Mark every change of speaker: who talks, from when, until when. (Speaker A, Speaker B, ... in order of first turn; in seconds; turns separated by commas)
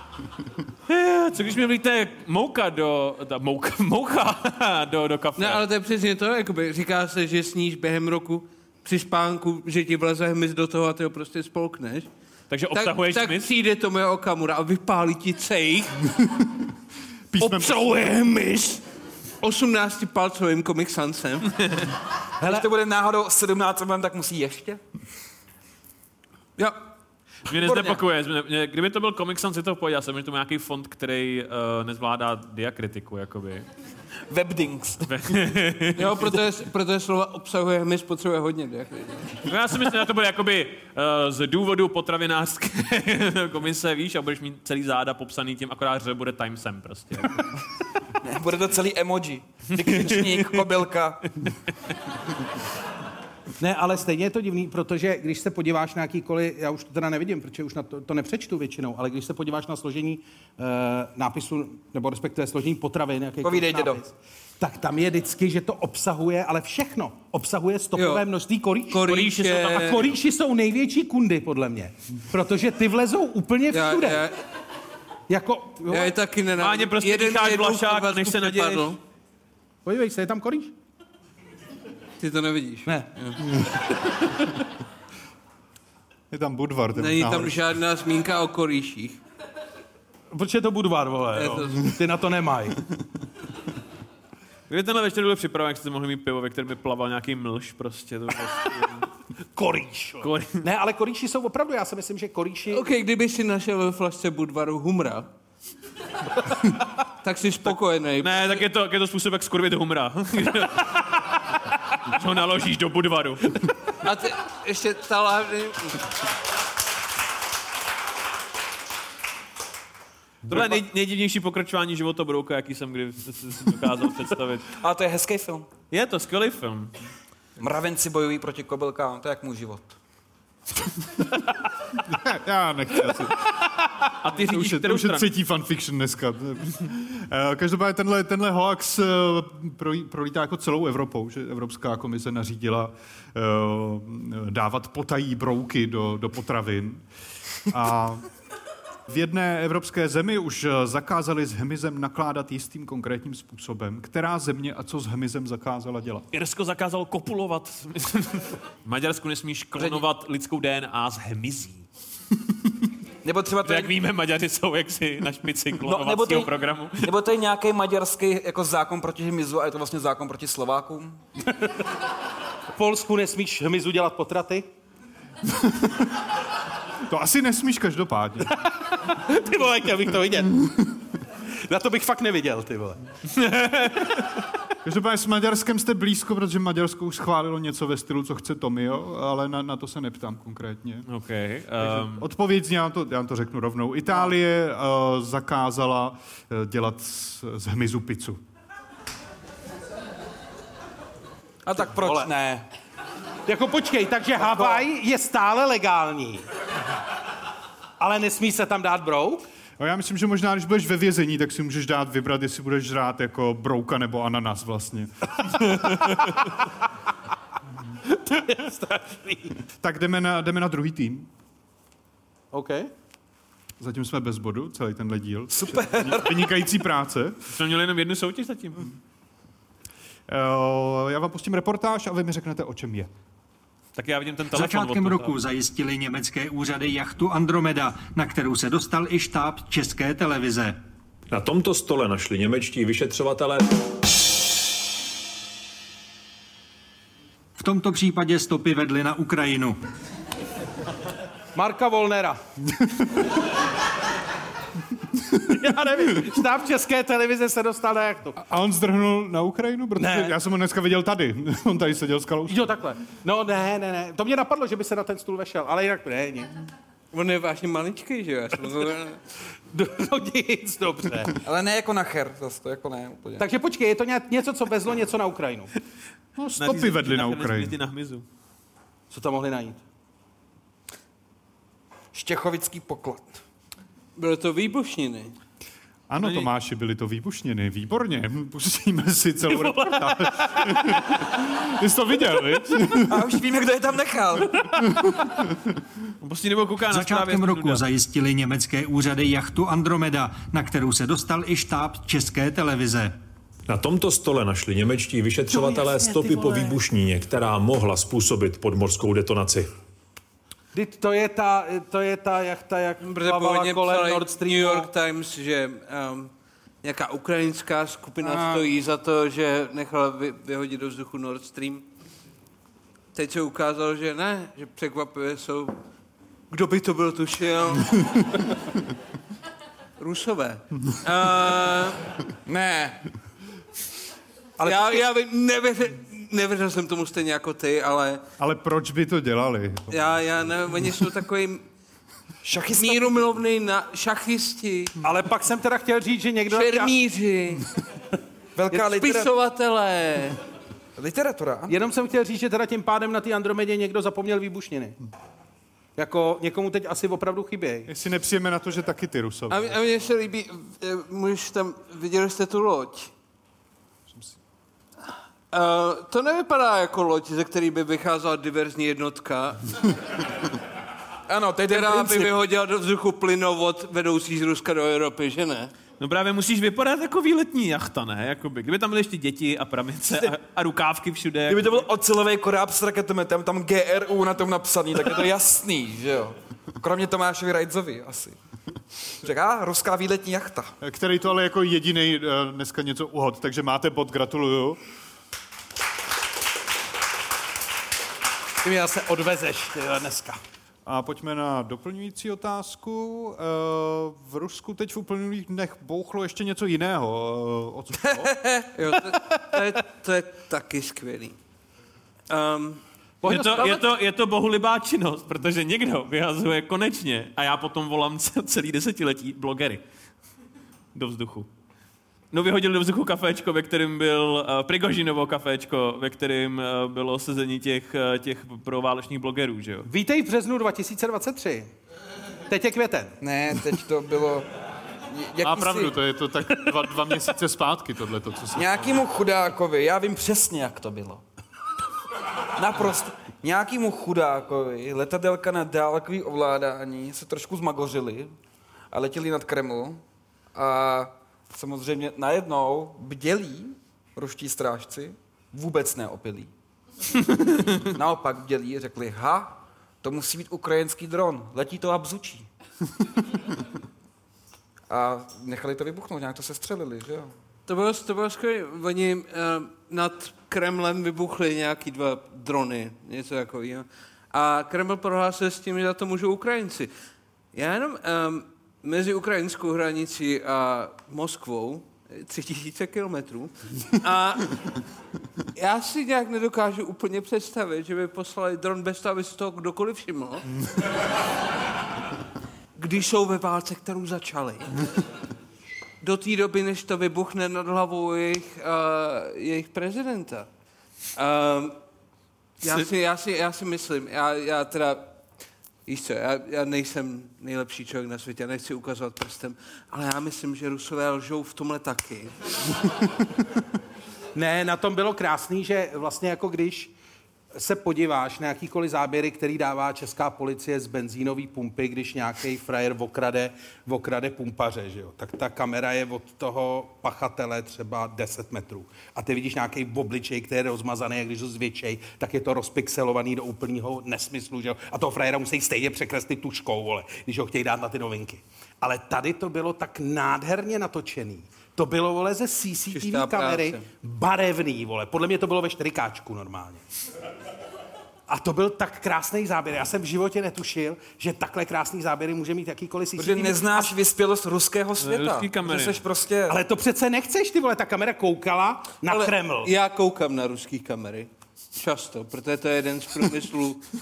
Speaker A: 0.9-5.6, Speaker B: 5.4-12.1, Speaker A: 12.5-13.5, Speaker B: 12.7-16.0, Speaker C: 16.2-16.5, Speaker C: 17.3-18.0, Speaker B: 17.4-18.8, Speaker B: 19.4-21.5, Speaker A: 21.6-21.9, Speaker D: 22.4-24.8, Speaker A: 27.5-33.7, Speaker D: 27.5-28.0, Speaker D: 34.3-35.4, Speaker A: 35.1-36.4, Speaker B: 36.0-39.4, Speaker A: 39.5-47.5, Speaker D: 48.2-51.3, Speaker A: 49.8-50.6, Speaker E: 53.6-74.3, Speaker D: 63.4-64.0, Speaker B: 68.0-68.2, Speaker B: 68.9-70.0, Speaker A: 69.1-70.0, Speaker B: 73.7-74.4, Speaker E: 75.3-76.2, Speaker B: 75.9-79.0, Speaker A: 76.6-79.0, Speaker E: 79.8-80.7, Speaker B: 82.2-83.4, Speaker C: 86.3-87.7, Speaker B: 87.0-89.2, Speaker E: 90.3-92.8, Speaker B: 91.3-91.9, Speaker A: 94.7-99.1, Speaker E: 99.5-102.8, Speaker A: 100.2-100.6, Speaker B: 102.7-105.3, Speaker B: 107.2-108.6, Speaker A: 107.7-113.7, Speaker B: 114.0-116.0, Speaker A: 120.5-124.7, Speaker D: 124.8-125.7, Speaker A: 125.9-126.9, Speaker D: 127.6-130.0, Speaker C: 132.1-133.6, Speaker A: 134.1-135.3, Speaker C: 134.3-147.0, Speaker C: 147.7-148.2, Speaker C: 149.1-156.3, Speaker A: 156.3-161.8, Speaker D: 159.8-160.0, Speaker D: 163.2-163.9, Speaker A: 163.6-167.1, Speaker D: 165.8-171.2, Speaker E: 172.8-174.7, Speaker C: 175.7-176.0, Speaker C: 177.1-178.6, Speaker E: 178.9-180.9, Speaker E: 181.7-183.0, Speaker A: 183.3-184.4, Speaker C: 184.8-191.1, Speaker A: 191.1-192.3, Speaker C: 191.8-198.4, Speaker D: 201.7-202.7, Speaker E: 201.9-202.3, Speaker E: 203.5-206.4, Speaker D: 204.4-204.8, Speaker E: 208.0-209.4, Speaker C: 209.8-216.0, Speaker E: 218.1-219.6, Speaker C: 219.8-221.3, Speaker E: 222.5-222.9, Speaker C: 223.8-227.4, Speaker D: 225.5-226.5, Speaker A: 227.5-228.9, Speaker C: 230.3-233.1, Speaker A: 234.0-235.3, Speaker F: 234.5-240.8, Speaker G: 241.3-243.7, Speaker F: 247.6-249.8, Speaker E: 251.6-252.4, Speaker E: 255.4-258.4, Speaker C: 258.4-262.8, Speaker E: 260.0-260.3, Speaker E: 262.5-266.5, Speaker B: 267.1-269.2, Speaker E: 269.7-271.3, Speaker D: 271.4-273.5, Speaker E: 273.4-275.7, Speaker C: 276.4-277.8, Speaker A: 276.6-278.2, Speaker E: 279.1-279.8, Speaker D: 282.1-283.4, Speaker B: 284.2-285.3, Speaker C: 286.1-293.3, Speaker A: 286.2-286.5, Speaker A: 289.5-291.2, Speaker D: 293.1-294.7, Speaker C: 294.9-295.3, Speaker A: 296.2-297.8, Speaker F: 296.9-303.1, Speaker G: 303.7-309.7, Speaker E: 305.7-306.7, Speaker E: 310.7-314.9, Speaker B: 313.0-316.3, Speaker B: 316.8-321.9, Speaker E: 318.2-318.7, Speaker B: 323.1-325.8, Speaker B: 326.5-328.3, Speaker B: 330.0-332.0, Speaker D: 332.5-333.0, Speaker E: 334.6-335.0, Speaker B: 334.6-338.2, Speaker C: 338.4-340.1, Speaker B: 339.9-341.6, Speaker D: 342.4-343.3, Speaker B: 342.8-345.0, Speaker E: 345.0-346.9, Speaker B: 346.5-347.7, Speaker D: 348.6-349.3, Speaker B: 348.7-350.4, Speaker D: 351.0-351.8, Speaker E: 351.7-355.0, Speaker E: 356.0-357.9, Speaker C: 357.9-359.8, Speaker B: 359.5-363.1, Speaker C: 364.1-364.4, Speaker B: 365.5-369.7, Speaker D: 371.3-372.3, Speaker B: 371.7-375.7, Speaker A: 376.0-381.9, Speaker D: 381.5-388.4, Speaker D: 389.2-390.7, Speaker C: 390.8-394.8, Speaker E: 398.6-400.4, Speaker C: 400.9-408.3, Speaker B: 408.2-411.4, Speaker B: 412.3-412.8, Speaker E: 413.2-413.8, Speaker A: 413.2-419.8, Speaker A: 420.9-421.5, Speaker A: 422.3-429.9, Speaker E: 429.9-431.7, Speaker E: 432.5-433.1, Speaker D: 433.2-434.5, Speaker D: 435.1-436.0, Speaker C: 435.4-438.9, Speaker D: 438.5-441.2, Speaker D: 442.6-448.3, Speaker D: 448.9-450.0, Speaker D: 450.5-456.5, Speaker D: 457.3-462.5, Speaker D: 464.9-467.3, Speaker B: 467.7-476.9, Speaker B: 477.5-484.6, Speaker B: 485.6-490.5, Speaker B: 492.8-494.7, Speaker B: 496.0-500.5, Speaker B: 501.2-501.8, Speaker B: 502.6-505.1, Speaker B: 505.9-512.4, Speaker E: 514.4-516.9, Speaker E: 517.5-546.8, Speaker B: 542.9-543.9, Speaker E: 548.3-553.9, Speaker D: 553.2-556.6, Speaker A: 555.0-556.0, Speaker E: 556.5-559.7, Speaker B: 559.1-563.9